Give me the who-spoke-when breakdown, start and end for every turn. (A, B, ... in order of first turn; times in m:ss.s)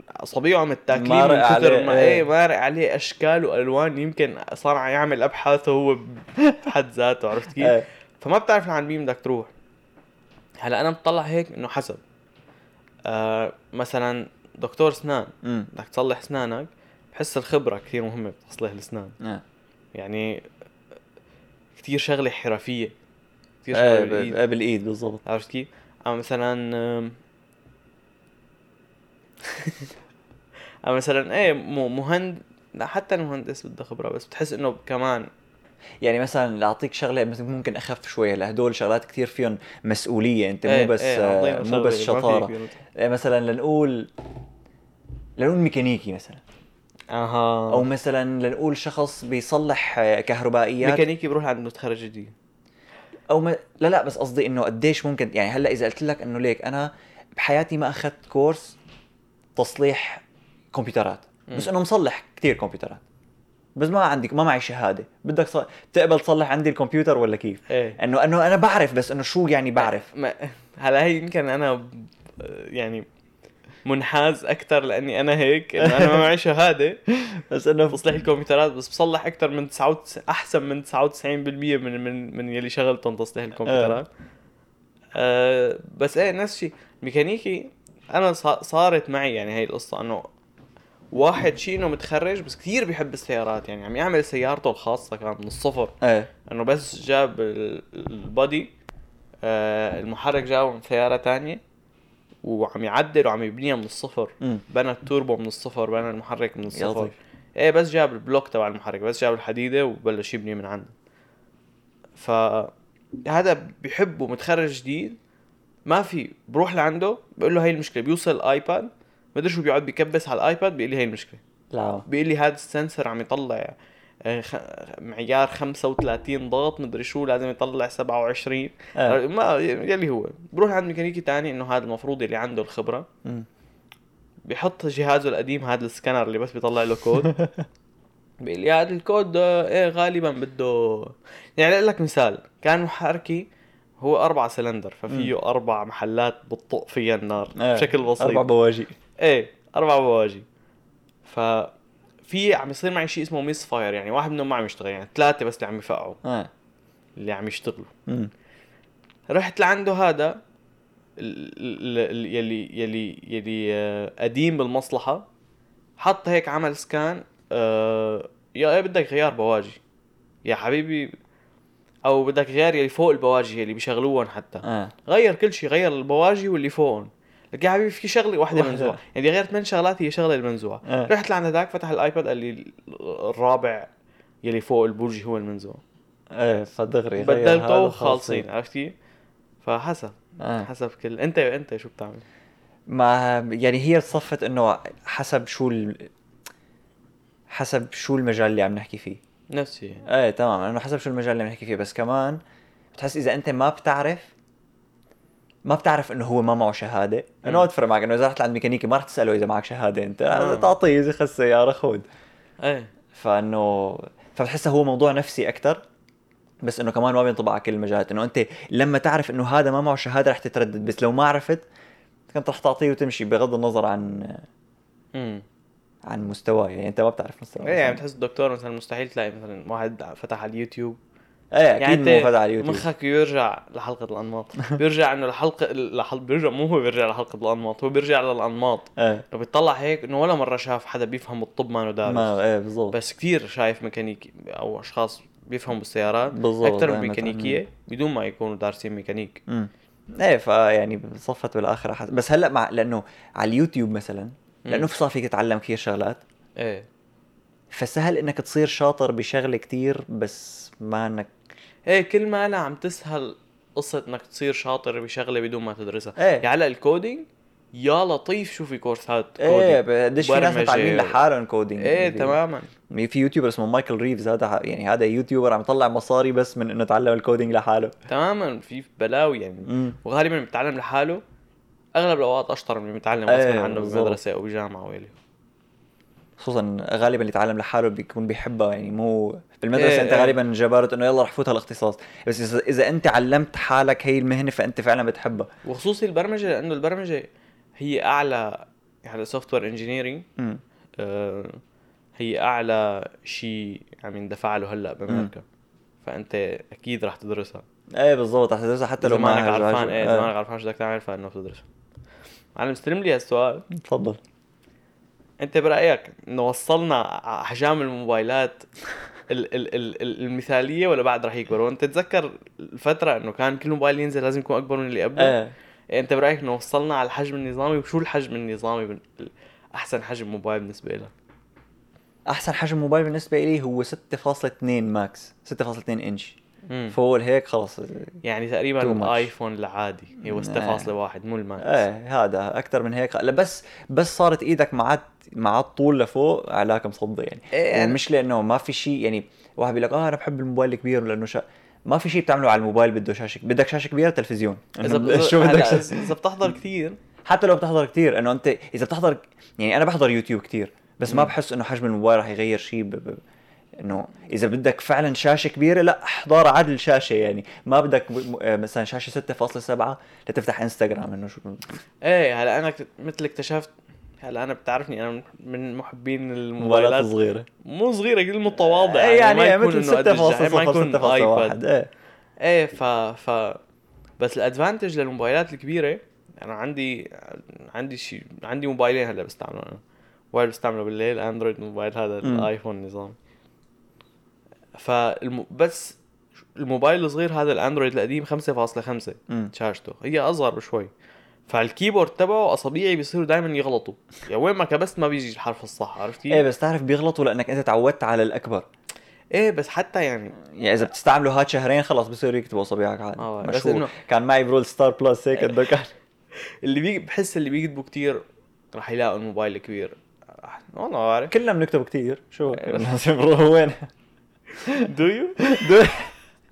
0:00.2-0:09.5 A
0:00.9-0:02.3 B
0:07.6-0:07.8 B
0:10.6-0:12.0 A
0:13.1-0:19.2 A
0:15.4-0:15.7 B
0:19.9-0:20.4 A
0:21.8-0:22.9 A
0:23.6-0:24.4 A
0:23.7-0:25.2 B
0:25.2-0:27.2 A
0:29.4-0:29.9 A
0:30.8-0:35.3 A
0:36.0-0:44.1 B
0:40.7-0:42.8 A
0:45.4-0:46.4 B
0:47.1-0:47.8 A
0:47.7-0:51.0 B
0:50.8-0:52.3 A
0:53.3-0:58.8 B
0:59.6-1:03.0 B
1:03.8-1:10.1 B
1:07.7-1:08.0 A
1:09.8-1:13.0 A
1:13.8-1:17.0 A
1:15.8-1:16.2 B
1:17.2-1:18.2 B
1:17.9-1:24.1 A
1:23.6-1:24.0 B
1:25.1-1:30.3 A
1:31.1-1:35.9 A
1:36.0-1:36.3 B
1:36.5-1:38.7 A
1:39.4-1:41.6 A
1:42.4-1:50.9 A
1:46.7-1:47.1 B
1:52.2-1:52.7 A
1:53.2-1:55.2 A
1:55.8-2:01.4 A
2:01.7-2:02.0 B
2:02.1-2:13.1 A
2:14.5-2:17.3 A
2:17.3-2:17.6 B
2:18.4-2:23.5 A
2:24.0-2:28.5 A
2:27.6-2:28.9 B
2:29.2-2:30.4 A
2:31.2-2:31.7 A
2:32.3-2:36.2 A
2:36.2-2:36.5 B
2:37.2-2:37.9 A
2:38.1-2:38.3 B
2:39.3-2:40.4 A
2:41.2-2:45.2 A
2:46.0-2:49.8 A
2:50.4-2:51.1 A
2:52.0-3:03.9 A
2:54.6-2:54.9 B
2:58.5-2:59.0 B
3:00.8-3:01.1 B
3:04.4-3:05.8 A
3:06.3-3:08.4 B
3:07.2-3:08.9 A
3:09.6-3:12.2 A
3:10.4-3:10.7 B
3:12.9-3:16.1 B
3:17.5-3:19.2 B
3:19.5-3:20.0 A
3:20.0-3:22.4 B
3:22.9-3:24.3 B
3:25.6-3:32.0 B
3:30.3-3:30.7 A
3:32.6-3:32.9 A
3:33.1-3:35.8 B
3:36.6-3:41.7 B
3:42.3-3:44.4 B
3:45.1-3:45.4 A
3:46.0-3:48.0 B
3:47.6-3:51.0 A
3:51.5-3:52.8 B
3:51.8-4:02.4 A
3:59.0-3:59.2 B
4:02.0-4:03.0 B
4:02.9-4:09.4 A
4:06.3-4:07.6 B
4:09.5-4:16.2 B
4:16.6-4:16.8 A
4:17.7-4:21.3 B
4:21.9-4:31.2 A
4:26.2-4:26.4 B
4:29.4-4:32.4 B
4:31.8-4:32.7 A
4:32.9-4:37.9 B
4:38.1-4:41.2 A
4:39.6-4:40.0 B
4:41.9-4:45.1 A
4:43.3-4:44.2 B
4:46.4-4:55.5 B
4:49.7-4:50.4 A
4:55.6-4:57.3 A
4:57.8-5:00.2 A
5:01.0-5:01.6 A
5:02.2-5:05.4 A
5:06.0-5:07.6 A
5:07.9-5:10.3 B
5:09.0-5:11.6 A
5:12.6-5:13.6 A
5:13.7-5:14.2 B
5:15.4-5:18.7 A
5:19.3-5:25.4 A
5:25.2-5:25.5 B
5:25.9-5:31.1 A
5:32.3-5:36.4 B
5:36.7-5:37.0 A
5:36.9-5:38.2 B
5:38.2-5:41.8 A
5:38.8-5:39.3 B
5:40.2-5:40.9 B
5:41.6-5:56.1 B
5:47.5-5:48.0 A
5:54.8-5:57.0 A
5:57.2-6:03.2 B
6:03.8-6:11.8 B
6:12.0-6:21.6 A
6:16.6-6:17.5 B
6:18.6-6:21.9 B
6:22.4-6:23.6 A
6:24.2-6:29.8 A
6:30.3-6:33.2 A
6:32.2-6:32.5 B
6:34.8-6:36.0 A
6:36.6-6:40.9 A
6:41.5-6:46.4 A
6:46.3-6:48.7 B
6:49.3-6:50.4 A
6:50.5-6:55.9 B
6:53.2-6:54.0 A
6:56.6-7:01.3 A
7:01.3-7:03.9 B
7:02.5-7:02.8 A
7:04.7-7:05.6 A
7:05.4-7:06.1 B